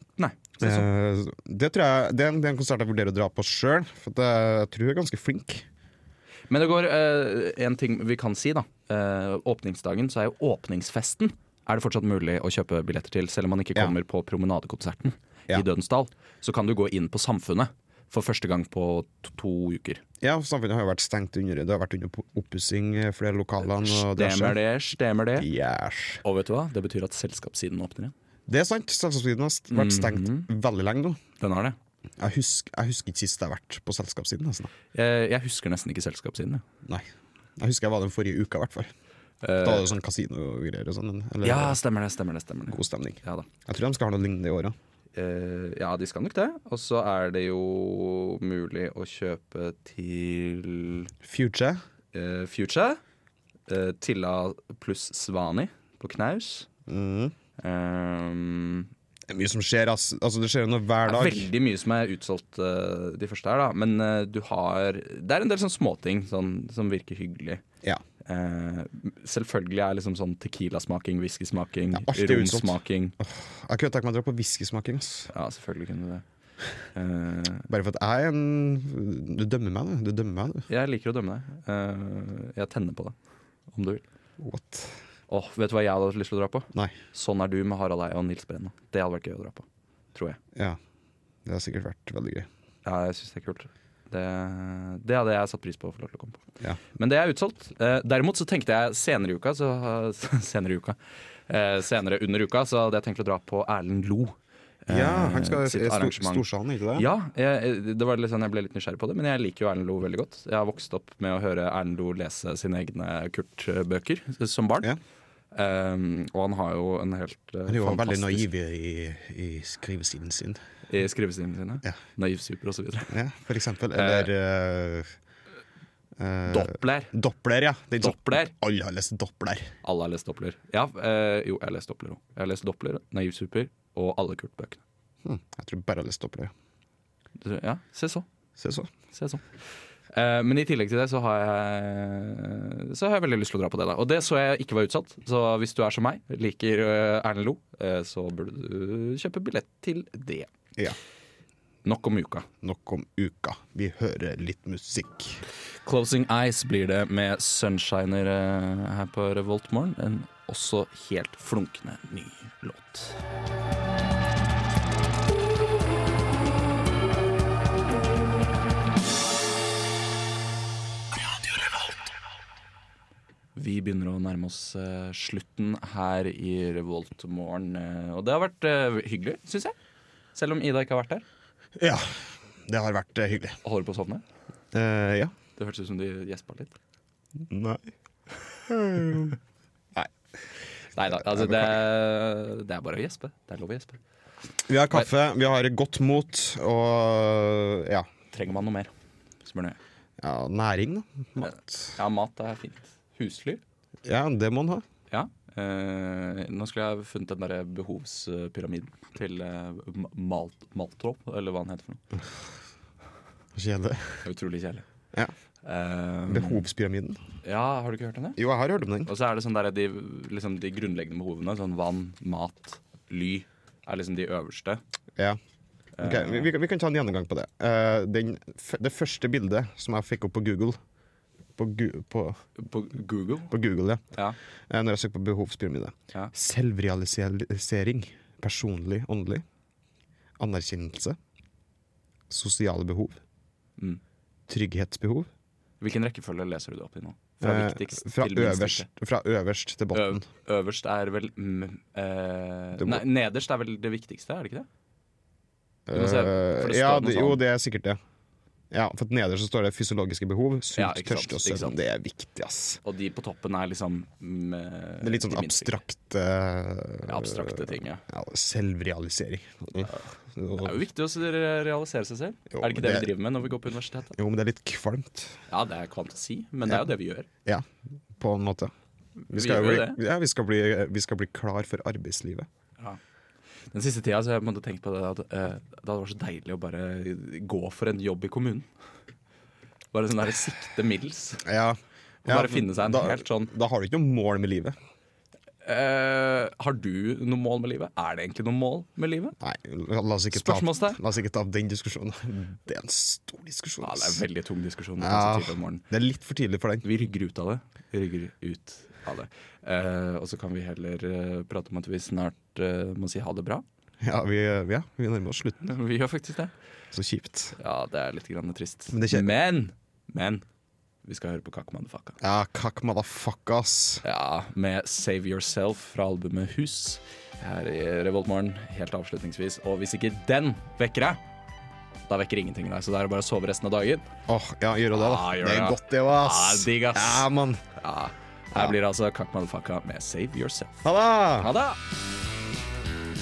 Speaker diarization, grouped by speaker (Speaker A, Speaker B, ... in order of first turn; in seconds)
Speaker A: 0.2-0.9, 6.5-20.0, 23.6-25.5, 26.2-28.1, 29.7-30.5, 31.4-31.8, 34.9-36.6, 39.4-39.9, 41.4-43.5, 45.1-51.1, 52.1-53.0, 53.7-56.7, 57.6-58.9, 61.0-67.6, 68.3-73.2, 75.3-76.2, 76.9-77.7, 80.7-83.2, 83.7-84.0, 85.3-90.4, 92.8-96.4, 97.0-101.0, 101.5-106.5, 107.0-114.9, 115.5-118.5, 120.9-123.1, 123.9-124.3, 126.5-127.1, 128.0-128.5, 129.8-134.8, 137.4-138.3, 139.1-139.4, 140.1-150.5, 151.8-152.5, 155.8-163.2, 173.6-179.8, 180.3-181.2, 183.6-184.2, 185.6-186.7, 190.9-194.0, 198.3-198.9, 199.4-199.8, 201.4-203.6, 205.1-212.0, 214.2-214.8, 215.7-216.7, 217.4-218.4, 219.1-224.8, 226.0-226.5, 232.6-233.5, 245.8-248.9, 249.9-254.7, 255.9-257.4, 260.8-261.8, 262.8-265.8, 267.1-268.0, 270.6-274.2, 275.5-277.3, 279.3-280.0, 283.7-288.7, 289.9-291.5, 292.3-293.5, 295.6-299.4, 300.3-301.0, 303.8-305.8, 306.8-313.6, 315.6-316.5, 317.6-320.4, 321.1-322.1, 324.0-331.2, 332.1-334.1, 334.9-340.9, 341.4-341.8
Speaker B: 0.6-5.7, 20.2-24.6, 25.4-26.2, 28.5-31.2, 32.2-34.7, 37.6-38.9, 39.6-41.8, 42.7-44.8, 51.2-51.8, 56.9-57.3, 59.3-61.5, 71.9-75.3, 77.7-80.7, 84.4-85.0, 91.5-92.5, 104.9-107.1, 117.7-120.6, 123.1-125.1, 126.2-129.7, 135.2-136.5, 138.6-138.9, 152.6-155.4, 181.8-183.6, 184.7-185.3, 187.4-187.9, 188.7-189.4, 191.1-191.8, 194.7-198.1, 200.2-201.9, 204.1-204.8, 213.6-214.3, 216.3-217.2, 218.4-219.1, 226.0-230.8, 231.6-232.4, 233.5-234.0, 234.7-239.4, 240.4-241.2, 242.3-243.2, 244.5-245.3, 247.4-250.2, 252.8-253.0, 255.9-258.0, 258.7-262.8, 265.0-270.8, 272.5-273.1, 274.1-275.4, 278.2-278.7, 279.3-282.5, 291.4-294.8, 299.4-304.2, 305.0-306.9, 314.0-315.7, 316.9-317.6, 318.9-319.3, 322.2-324.0, 334.3-337.6, 340.8-341.5